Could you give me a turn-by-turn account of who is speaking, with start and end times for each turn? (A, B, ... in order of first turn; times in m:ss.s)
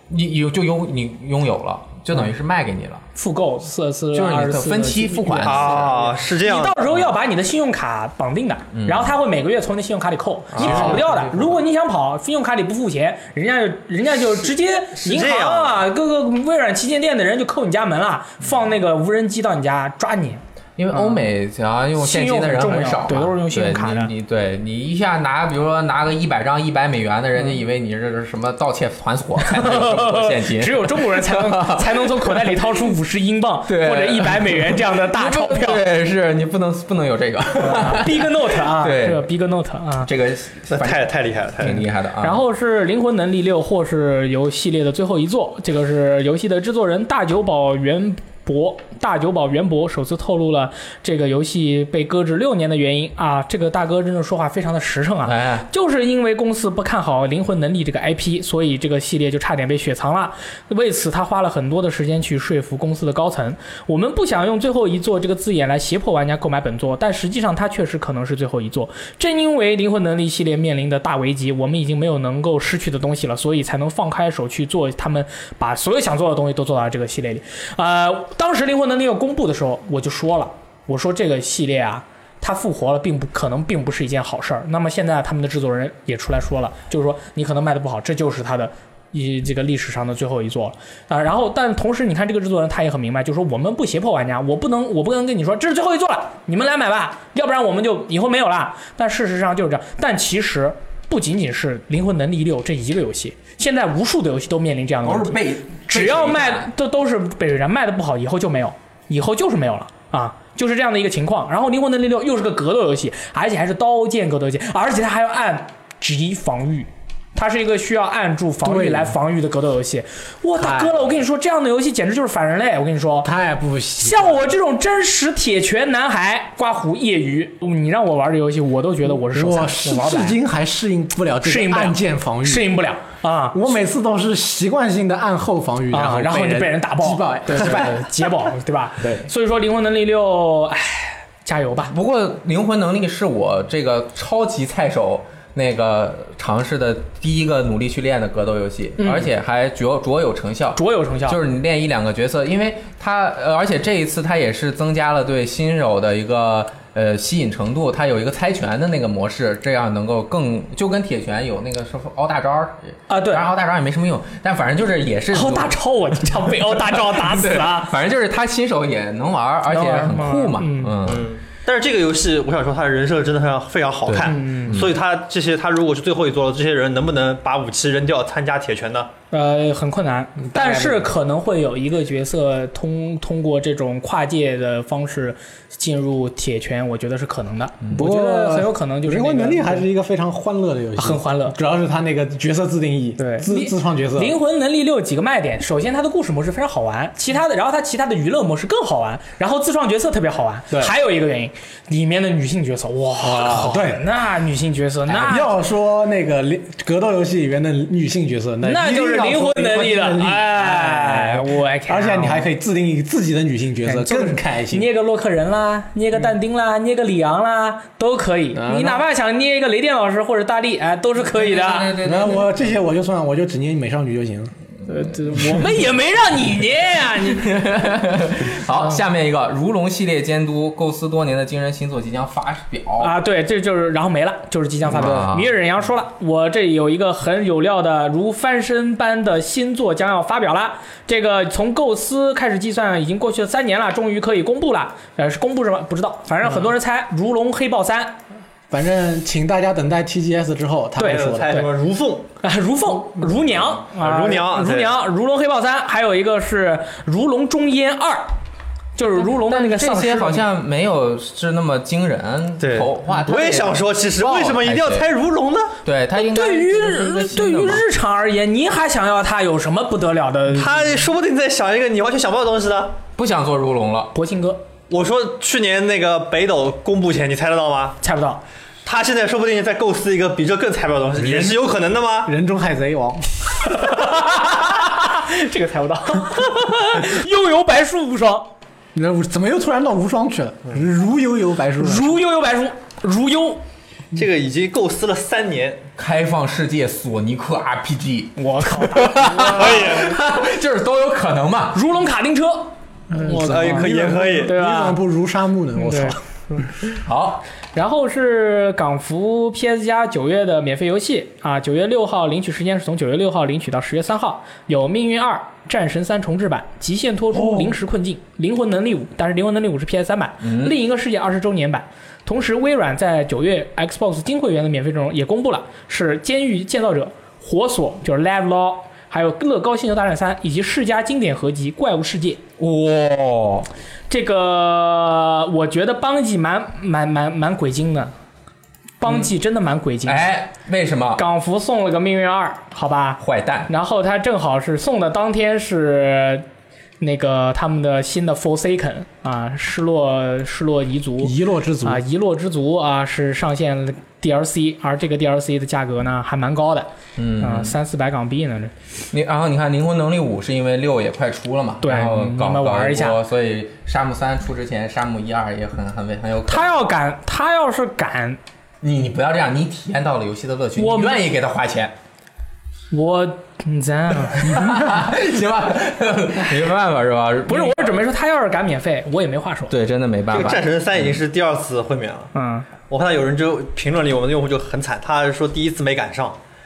0:00.1-0:03.0 A
0:03.2-0:21.3 B
0:04.1-0:06.1 A
0:05.5-0:06.8 C
0:08.7-0:09.2 A
0:10.6-0:11.6 A
0:10.6-0:11.0 C
0:15.0-0:15.8 C
0:20.8-0:32.6 A
0:22.0-0:24.1 B
0:29.4-0:35.9 B
0:33.7-0:39.3 A
0:37.6-0:40.1 B
0:40.0-0:42.4 A
0:40.7-0:41.9 C
0:42.2-2:03.3 B
0:55.2-0:55.7 A
1:45.0-1:46.7 A
1:58.6-1:59.2 D
2:00.6-2:01.0 D
2:03.2-2:04.5 D
2:04.0-2:10.4 B
2:09.1-2:12.7 D
2:11.4-2:13.6 B
2:13.5-2:18.0 D
2:15.9-2:21.9 B
2:21.9-2:45.7 A
2:29.0-2:29.3 B
2:30.8-2:31.4 B
2:43.1-2:43.5 B
2:45.3-2:47.9 B
2:47.0-2:51.2 A
2:49.7-2:51.0 B
2:51.0-2:59.1 C
2:54.1-2:54.9 A
2:54.3-2:54.8 B
2:59.3-3:09.9 B
3:00.4-3:01.0 D
3:07.9-3:14.4 D
3:11.0-3:11.6 B
3:13.2-3:25.5 B
3:23.2-3:24.0 D
3:25.1-3:34.9 D
3:28.6-3:32.5 B
3:33.8-3:42.0 B
3:38.5-3:39.0 D
3:41.3-3:42.5 A
3:42.0-3:44.5 D
3:44.9-3:47.7 B
3:47.2-3:53.1 A
3:53.0-4:08.2 B
3:54.8-3:55.5 A
4:08.7-4:11.6 D
4:11.0-4:12.3 C
4:11.0-4:11.7 B
4:12.4-4:18.3 B
4:13.9-4:15.0 C
4:19.0-4:20.4 B
4:19.2-4:25.1 A
4:22.6-4:25.7 C
4:25.8-4:27.8 A
4:26.2-4:31.0 B
4:30.5-4:33.0 C
4:33.2-4:34.1 A
4:34.1-4:34.6 B
4:34.9-4:38.0 C
4:38.0-4:38.4 B
4:38.8-4:42.3 C
4:41.2-4:41.7 D
4:42.2-4:43.3 D
4:43.6-4:48.5 B
4:49.0-4:52.2 D
4:51.8-4:53.6 B
4:54.1-4:55.8 C
4:56.0-5:01.8 A
4:58.4-5:00.0 B
4:59.5-5:00.1 C
5:01.7-5:05.0 B
5:03.1-5:06.2 D
5:03.3-5:04.5 C
5:05.8-5:06.2 B
5:07.0-5:07.4 A
5:07.8-5:32.4 B
5:17.4-5:17.7 A
5:20.4-5:20.8 A
5:32.6-5:33.7 A
5:34.1-5:38.1 B
5:39.0-5:40.3 B
5:40.0-5:41.2 A
5:41.2-5:46.4 B
5:43.2-5:43.7 A
5:47.0-5:56.9 B
5:51.2-5:52.0 D
5:57.2-5:57.8 A
5:57.4-5:58.7 B
5:59.1-6:06.7 A
6:01.8-6:03.2 B
6:06.5-6:08.4 B
6:08.8-6:11.9 A
6:10.8-6:11.2 B
6:12.9-6:14.9 B
6:14.4-6:18.0 A
6:17.5-6:19.7 B
6:19.7-6:21.2 A
6:20.3-6:22.3 C
6:22.3-6:22.7 B
6:22.9-6:26.4 C